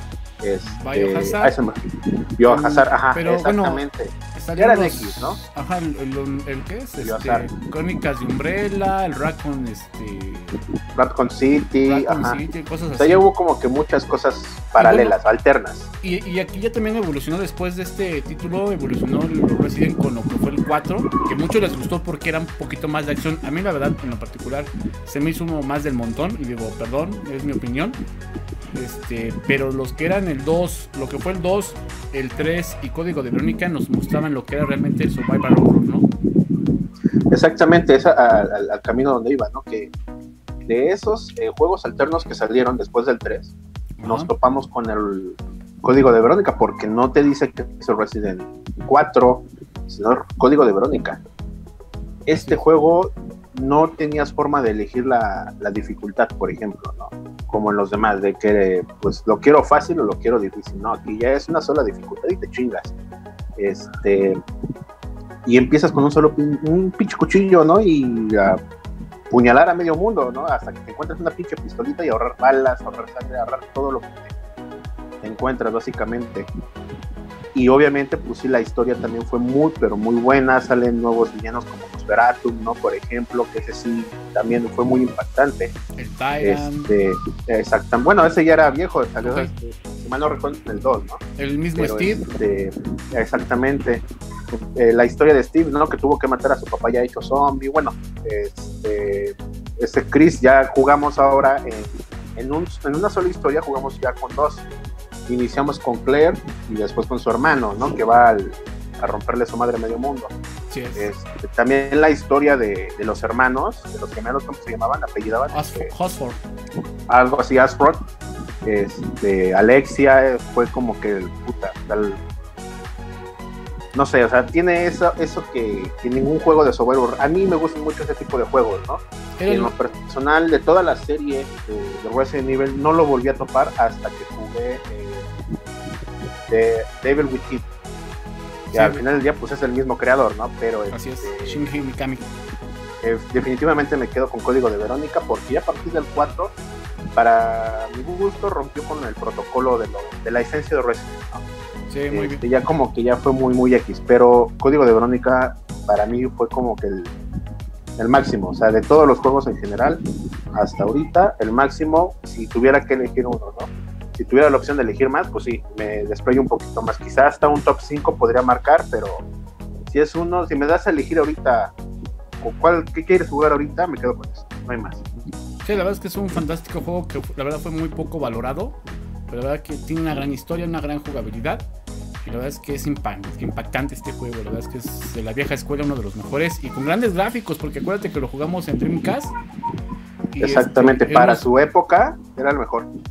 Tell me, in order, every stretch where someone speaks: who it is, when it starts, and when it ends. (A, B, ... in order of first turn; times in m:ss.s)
0:00.4-0:05.4 A
0:00.6-0:01.6 B
0:02.4-0:03.8 B
0:04.3-0:10.6 B
0:07.0-0:07.5 A
0:11.0-0:12.4 A
0:11.8-0:13.3 B
0:13.0-0:15.9 A
0:14.8-0:15.2 B
0:16.0-0:28.0 B
0:28.7-0:36.1 B
0:37.3-0:39.9 A
0:40.6-0:51.2 A
0:44.0-0:44.3 B
0:52.3-1:02.9 A
0:52.4-0:52.6 B
1:03.6-1:04.4 A
1:05.4-1:08.6 A
1:09.3-1:14.3 A
1:15.2-1:16.5 A
1:17.6-1:25.8 A
1:26.0-1:26.9 B
1:26.4-1:31.2 A
1:29.2-1:29.5 B
1:31.4-1:32.2 B
1:31.8-1:44.7 A
1:45.3-1:50.3 A
1:50.7-1:51.1 B
1:51.0-1:55.9 A
1:55.5-1:56.4 B
1:57.1-1:58.0 A
1:58.6-2:02.2 A
2:03.9-2:15.3 A
2:09.4-2:09.7 B
2:16.5-2:17.7 A
2:18.7-2:21.7 A
2:18.7-2:19.0 B
2:20.9-2:22.3 B
2:23.0-2:26.6 A
2:27.2-2:31.4 A
2:31.9-2:32.4 B
2:32.1-2:37.1 A
2:38.0-2:49.2 A
2:49.9-2:51.7 A
2:52.4-2:55.0 A
2:55.6-2:58.8 B
2:59.3-3:01.6 B
3:02.2-3:09.3 B
3:10.3-3:11.4 B
3:10.4-3:12.9 A